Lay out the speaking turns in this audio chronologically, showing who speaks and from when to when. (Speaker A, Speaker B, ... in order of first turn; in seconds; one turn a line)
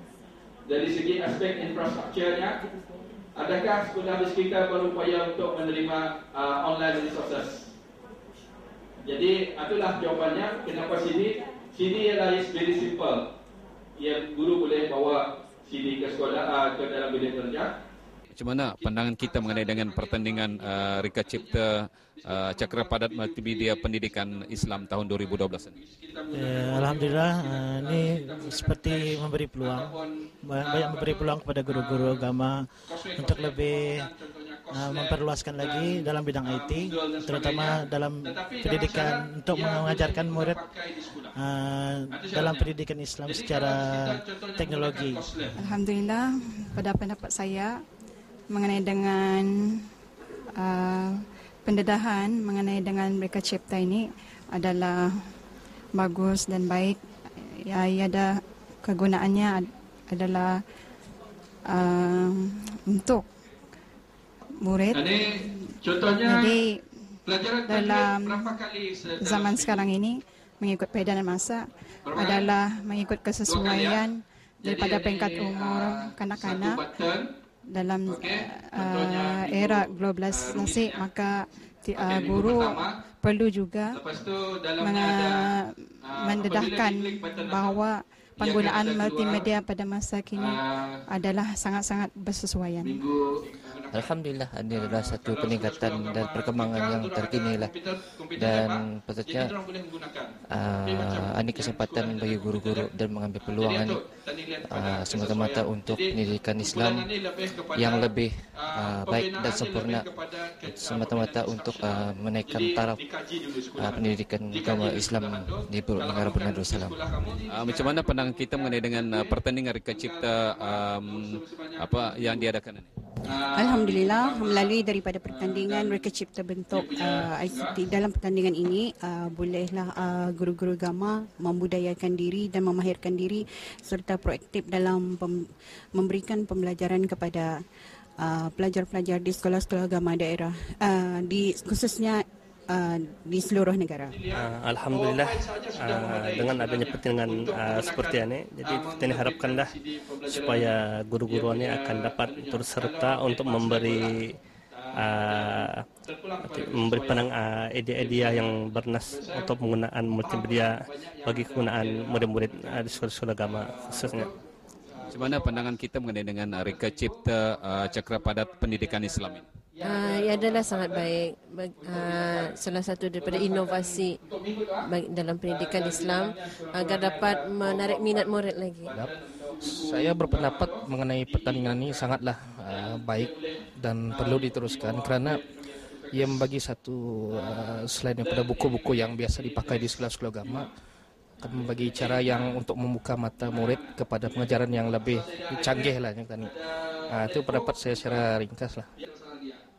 Speaker A: 0.7-2.6
Speaker A: 3.4-7.6
Speaker A: 9.1-13.2
Speaker A: 14.0-17.7
Speaker B: 18.3-25.8
Speaker A: 18.7-21.6
Speaker A: 22.2-32.3
Speaker C: 26.3-34.1
Speaker A: 32.9-41.3
Speaker C: 34.7-40.6
Speaker C: 41.4-45.8
Speaker A: 42.1-42.7
Speaker A: 43.2-45.5
Speaker D: 45.6-47.7
Speaker D: 48.5-49.5
Speaker D: 50.6-51.1
Speaker D: 51.6-55.1
Speaker D: 55.9-57.0
Speaker D: 57.7-58.3
Speaker D: 58.8-60.5
Speaker D: 61.7-63.2
Speaker D: 64.6-65.7
Speaker A: 64.9-65.3
Speaker A: 65.8-66.5
Speaker D: 66.2-66.8
Speaker A: 67.2-69.8
Speaker D: 67.7-68.6
Speaker D: 69.2-71.6
Speaker A: 72.1-72.5
Speaker D: 72.1-76.8
Speaker A: 73.5-74.0
Speaker A: 74.6-77.3
Speaker D: 77.7-84.0
Speaker A: 78.1-81.0
Speaker A: 81.9-82.9
Speaker A: 83.9-85.4
Speaker D: 84.8-90.6
Speaker A: 86.0-87.8
Speaker A: 88.4-89.5
Speaker A: 90.3-91.0
Speaker D: 91.1-93.0
Speaker A: 92.8-94.2
Speaker E: 93.9-97.7
Speaker A: 94.7-122.5
Speaker E: 98.4-99.5
Speaker E: 100.5-104.0
Speaker E: 104.7-107.1
Speaker E: 107.8-110.1
Speaker E: 110.7-113.0
Speaker E: 113.8-117.0
Speaker B: 117.5-122.9
Speaker A: 123.2-126.1
Speaker F: 123.6-137.5
Speaker A: 126.7-127.8
Speaker F: 138.2-144.2
Speaker A: 144.1-154.2
Speaker G: 144.3-149.8
Speaker G: 150.3-154.3
Speaker A: 154.8-157.3
Speaker G: 155.0-155.8
Speaker G: 156.4-164.3
Speaker A: 157.9-158.5
Speaker A: 159.1-159.6
Speaker A: 160.2-164.3
Speaker A: 164.9-165.8
Speaker B: 165.1-169.4
Speaker A: 166.5-171.1
Speaker H: 169.8-174.2
Speaker A: 171.7-172.6
Speaker A: 173.2-174.9
Speaker H: 174.8-178.9
Speaker A: 175.4-182.1
Speaker I: 179.7-185.4
Speaker A: 182.7-186.5
Speaker I: 186.1-190.7
Speaker A: 187.3-190.7
Speaker A: 191.4-192.6
Speaker I: 191.4-196.5
Speaker A: 193.4-198.3
Speaker I: 197.1-198.9
Speaker A: 198.9-199.6